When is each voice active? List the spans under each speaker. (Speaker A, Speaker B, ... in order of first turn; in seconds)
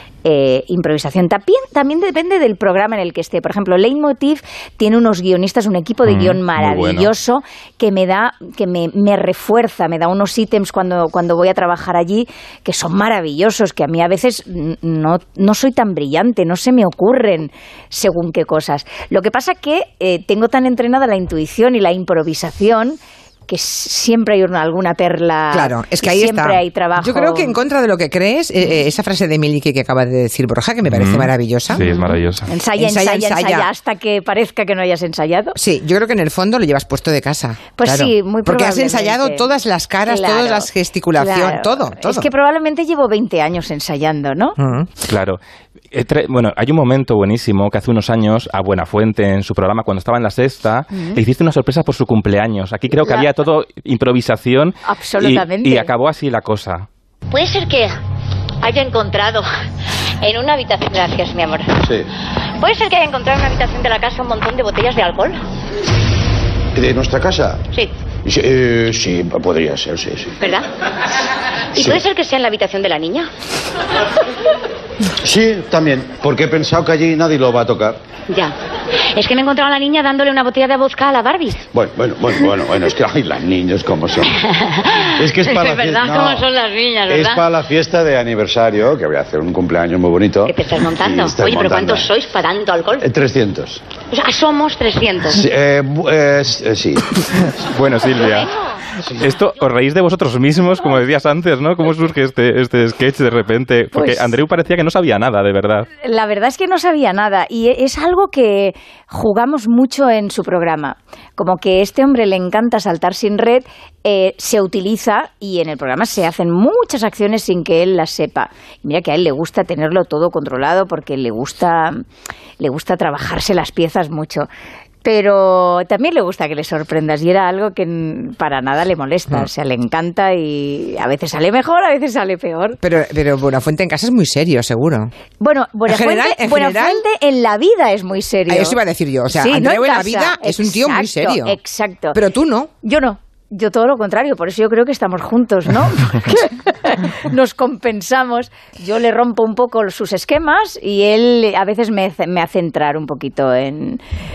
Speaker A: 0.2-27.6, 31.8-35.6, 37.8-39.5, 40.0-44.6, 50.9-51.2, 54.8-55.9, 103.9-104.3, 106.0-122.0, 122.6-124.5, 125.0-132.8, 135.4-138.8, 139.3-142.2, 142.8-154.0
Speaker B: 6.0-7.1, 30.9-32.5, 45.0-45.4, 45.9-56.9, 97.7-98.5, 99.1-105.9
Speaker C: 25.5-31.9, 32.7-33.7, 35.5-42.3, 44.6-44.9, 132.8-135.1, 135.9-137.0, 138.5-141.6, 142.1-142.7
Speaker D: 57.3-58.0, 58.6-59.5, 60.2-61.8, 62.6-65.4, 70.4-70.7, 71.8-73.3, 79.1-81.6, 84.5-87.5, 90.5-93.0, 94.1-95.4
Speaker E: 66.7-67.6, 68.2-70.3, 71.8-72.0, 75.2-78.0, 81.7-84.3, 85.2-86.5, 87.1-92.1, 93.0-93.8, 95.3-97.3